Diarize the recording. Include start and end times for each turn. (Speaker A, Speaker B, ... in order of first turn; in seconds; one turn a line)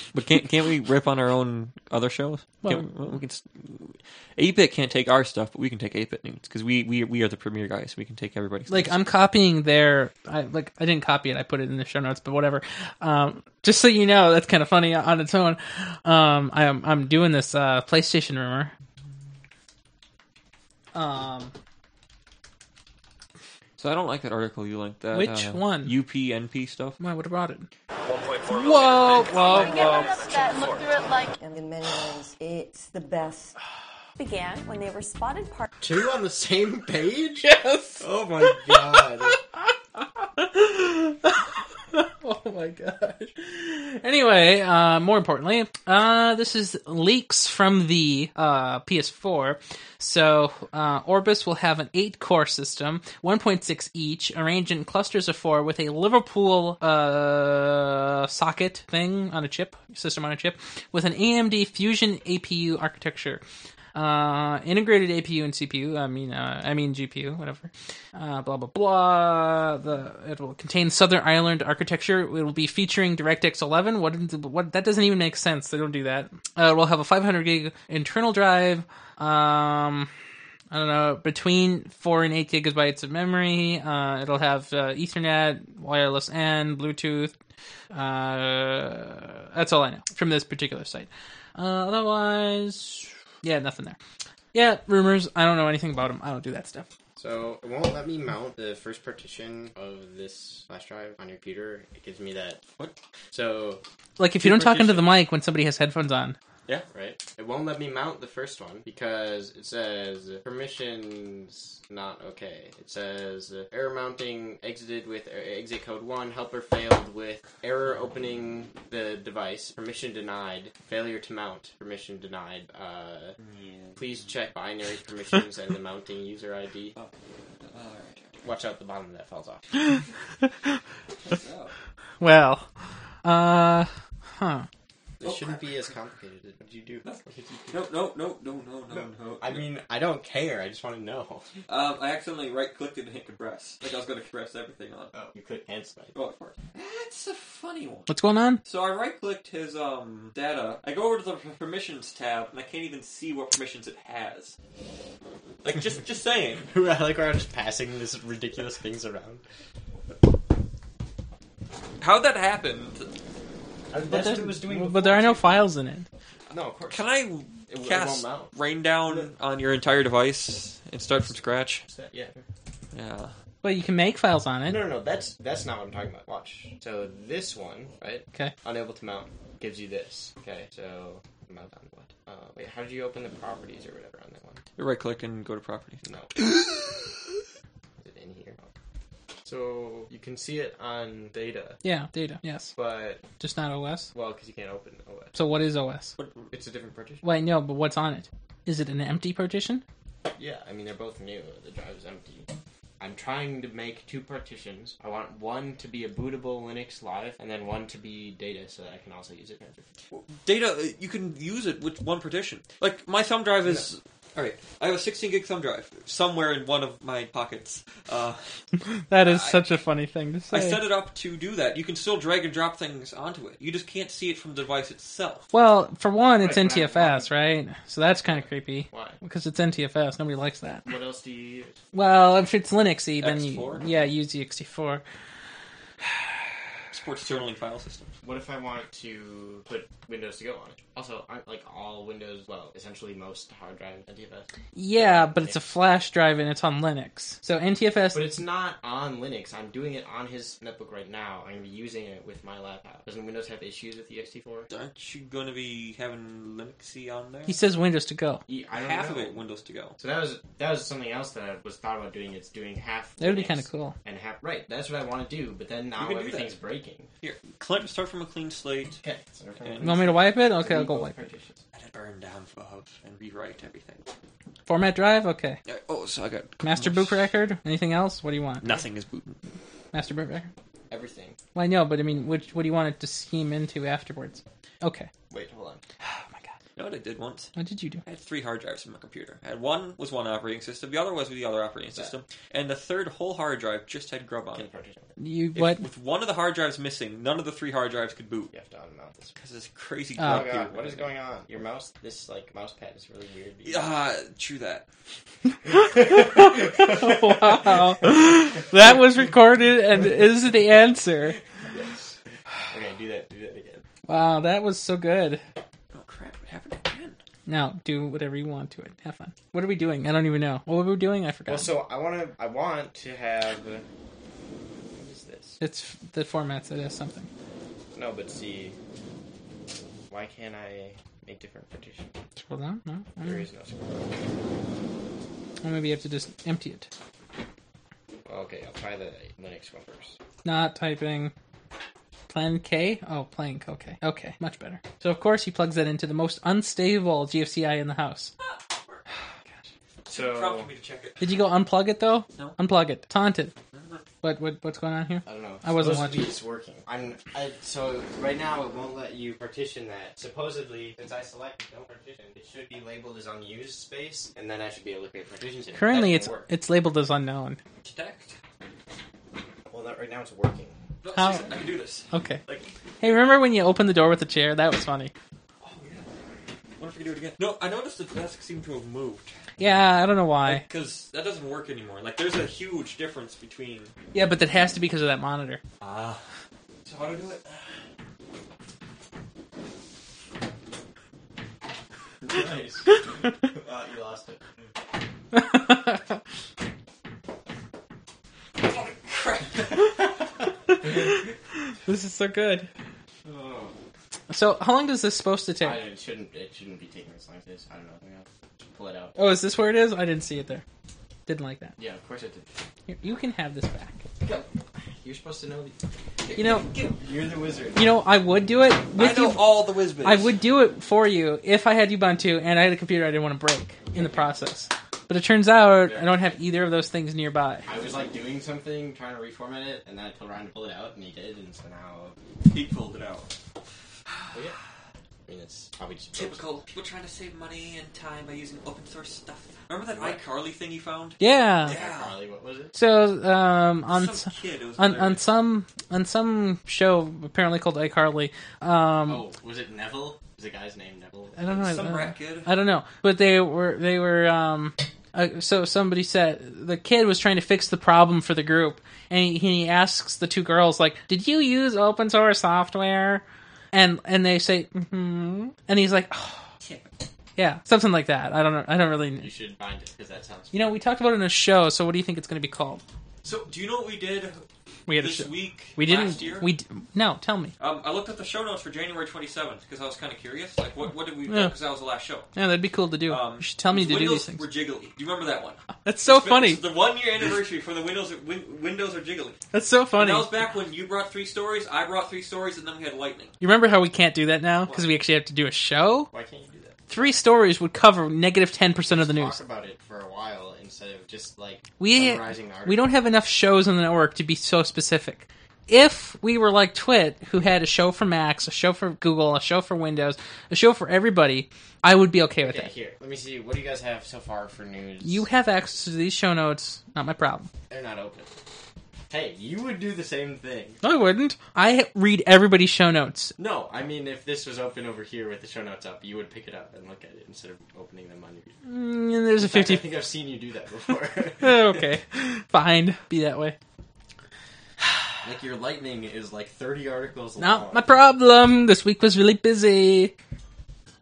Speaker A: 0.1-8.9
Speaker B: 8.7-18.7
Speaker B: 20.9-21.5
Speaker A: 23.8-27.0
Speaker B: 25.1-25.9
Speaker B: 27.0-27.7
Speaker A: 28.1-30.9
Speaker B: 28.5-30.2
Speaker C: 29.4-31.3
Speaker D: 31.4-33.6
Speaker C: 34.2-35.7
Speaker E: 35.8-39.4
Speaker B: 37.4-63.4
Speaker B: 64.0-80.1
Speaker B: 80.7-87.3
Speaker B: 87.9-94.0
Speaker B: 94.5-96.9
Speaker E: 97.2-102.6
Speaker E: 103.3-103.8
Speaker B: 104.2-106.4
Speaker E: 104.4-105.0
Speaker E: 106.9-123.4
Speaker A: 123.4-124.3
Speaker E: 124.0-127.0
Speaker A: 127.6-128.4
Speaker E: 128.4-129.7
Speaker B: 129.9-130.7
Speaker A: 131.2-131.7
Speaker B: 132.2-132.7
Speaker B: 133.2-134.7
Speaker A: 135.2-135.8
Speaker E: 135.2-137.9
Speaker A: 137.0-139.7
Speaker E: 138.9-141.5
Speaker A: 141.7-145.1
Speaker E: 145.1-146.2
Speaker A: 146.1-148.1
Speaker B: 148.1-148.6
Speaker A: 148.7-154.6
Speaker A: 155.6-156.7
Speaker E: 156.7-159.4
Speaker A: 162.0-163.1
Speaker E: 163.9-165.7
Speaker B: 164.1-166.1
Speaker E: 166.5-167.1
Speaker A: 166.9-171.8
Speaker E: 167.7-168.5
Speaker E: 169.1-169.3
Speaker E: 171.1-172.4
Speaker A: 172.9-173.3
Speaker B: 173.6-174.8
Speaker E: 174.7-184.6
Speaker A: 184.8-187.4
Speaker E: 186.1-186.3
Speaker E: 188.0-188.7
Speaker E: 189.4-191.8
Speaker B: 191.8-192.7
Speaker E: 192.8-193.2
Speaker B: 193.4-194.1
Speaker E: 194.1-195.4
Speaker B: 195.3-196.2
Speaker A: 196.2-196.5
Speaker E: 196.5-197.2
Speaker B: 197.2-199.8
Speaker E: 200.4-202.5
Speaker E: 203.0-209.9
Speaker A: 210.1-218.5
Speaker B: 218.8-220.8
Speaker A: 219.2-219.6
Speaker A: 220.5-225.5
Speaker B: 225.5-230.9
Speaker E: 226.4-227.3
Speaker E: 228.2-229.2
Speaker E: 230.9-231.8
Speaker B: 231.9-235.0
Speaker A: 233.2-233.8
Speaker A: 236.9-238.1
Speaker E: 238.2-245.7
Speaker B: 244.8-248.3
Speaker E: 248.1-254.7
Speaker A: 254.7-257.6
Speaker B: 257.5-258.4
Speaker E: 258.5-259.4
Speaker A: 258.7-260.0
Speaker E: 260.0-267.1
Speaker B: 263.2-264.0
Speaker A: 266.0-266.6
Speaker A: 267.2-269.0
Speaker E: 269.0-271.6
Speaker A: 269.6-269.9
Speaker B: 269.8-271.3
Speaker A: 271.7-274.0
Speaker B: 274.7-275.6
Speaker A: 275.7-277.2
Speaker B: 276.6-278.8
Speaker A: 278.6-279.4
Speaker B: 279.9-280.5
Speaker E: 280.9-281.4
Speaker B: 281.6-285.1
Speaker E: 285.3-285.8
Speaker B: 286.0-286.5
Speaker A: 286.8-287.5
Speaker B: 287.6-288.0
Speaker A: 288.1-294.7
Speaker E: 294.5-295.1
Speaker B: 295.2-295.8
Speaker A: 295.6-298.5
Speaker E: 298.5-299.3
Speaker A: 299.4-301.1
Speaker B: 300.2-300.5
Speaker E: 300.2-303.9
Speaker A: 303.6-304.9
Speaker E: 305.6-308.1
Speaker B: 305.7-311.4
Speaker E: 311.6-312.2
Speaker E: 312.7-313.8
Speaker B: 314.1-315.4
Speaker A: 315.9-317.2
Speaker B: 317.5-321.7
Speaker E: 321.5-323.9
Speaker E: 324.9-325.6
Speaker B: 325.6-327.3
Speaker E: 327.9-328.8
Speaker E: 330.1-332.2
Speaker B: 332.4-333.4
Speaker E: 333.2-334.1
Speaker B: 335.6-336.9
Speaker E: 338.3-340.2
Speaker B: 340.4-341.3
Speaker B: 342.3-348.3
Speaker A: 348.4-349.0
Speaker E: 350.1-350.7
Speaker A: 350.1-351.3
Speaker B: 351.2-353.5
Speaker A: 353.7-354.1
Speaker B: 354.2-356.3
Speaker E: 355.3-366.5
Speaker B: 365.7-367.6
Speaker A: 367.8-368.4
Speaker E: 369.7-370.8
Speaker A: 371.0-372.7
Speaker B: 371.1-371.5
Speaker B: 372.1-372.4
Speaker B: 373.0-375.1
Speaker A: 375.6-376.1
Speaker A: 376.8-379.4
Speaker B: 379.6-380.6
Speaker A: 380.5-383.9
Speaker B: 384.1-385.6
Speaker A: 385.8-386.2
Speaker A: 386.9-387.8
Speaker E: 392.2-394.4
Speaker B: 395.3-396.1
Speaker A: 398.6-399.9
Speaker B: 400.7-401.2
Speaker B: 401.8-402.7
Speaker E: 403.2-403.7
Speaker B: 404.3-405.8
Speaker E: 405.6-409.2
Speaker B: 409.2-410.6
Speaker B: 411.3-411.8
Speaker E: 411.8-412.5
Speaker B: 412.9-414.0
Speaker E: 414.2-415.8
Speaker A: 416.2-417.0
Speaker B: 416.4-416.7
Speaker E: 416.8-417.9
Speaker B: 417.8-419.4
Speaker A: 419.0-420.3
Speaker B: 420.0-427.7
Speaker E: 423.9-424.4
Speaker E: 425.8-426.3
Speaker E: 427.7-432.1
Speaker A: 432.5-433.3
Speaker A: 434.1-434.5
Speaker E: 435.3-436.4
Speaker A: 436.1-442.2
Speaker E: 439.9-440.2
Speaker B: 441.2-441.8
Speaker E: 441.6-442.8
Speaker B: 442.7-449.2
Speaker A: 443.9-445.2
Speaker E: 449.1-451.7
Speaker B: 451.4-466.4
Speaker A: 451.5-452.5
Speaker A: 466.6-466.9
Speaker B: 467.4-469.3
Speaker E: 469.2-470.8
Speaker B: 470.5-472.8
Speaker A: 473.2-474.4
Speaker B: 474.9-477.5
Speaker A: 475.0-476.5
Speaker A: 477.6-482.3
Speaker B: 481.3-481.5
Speaker B: 482.4-484.4
Speaker A: 483.1-489.4
Speaker B: 485.9-486.6
Speaker B: 489.5-490.3
Speaker A: 490.0-493.3
Speaker B: 493.4-496.1
Speaker E: 496.1-497.2
Speaker B: 496.9-499.4
Speaker E: 498.9-502.9
Speaker B: 501.8-512.7
Speaker E: 512.4-515.3
Speaker B: 515.0-517.5
Speaker E: 517.7-518.3
Speaker E: 519.1-520.8
Speaker B: 520.8-523.3
Speaker E: 523.4-528.6
Speaker B: 528.7-529.9
Speaker E: 529.4-531.9
Speaker B: 531.4-533.6
Speaker E: 535.2-537.9
Speaker B: 537.4-540.1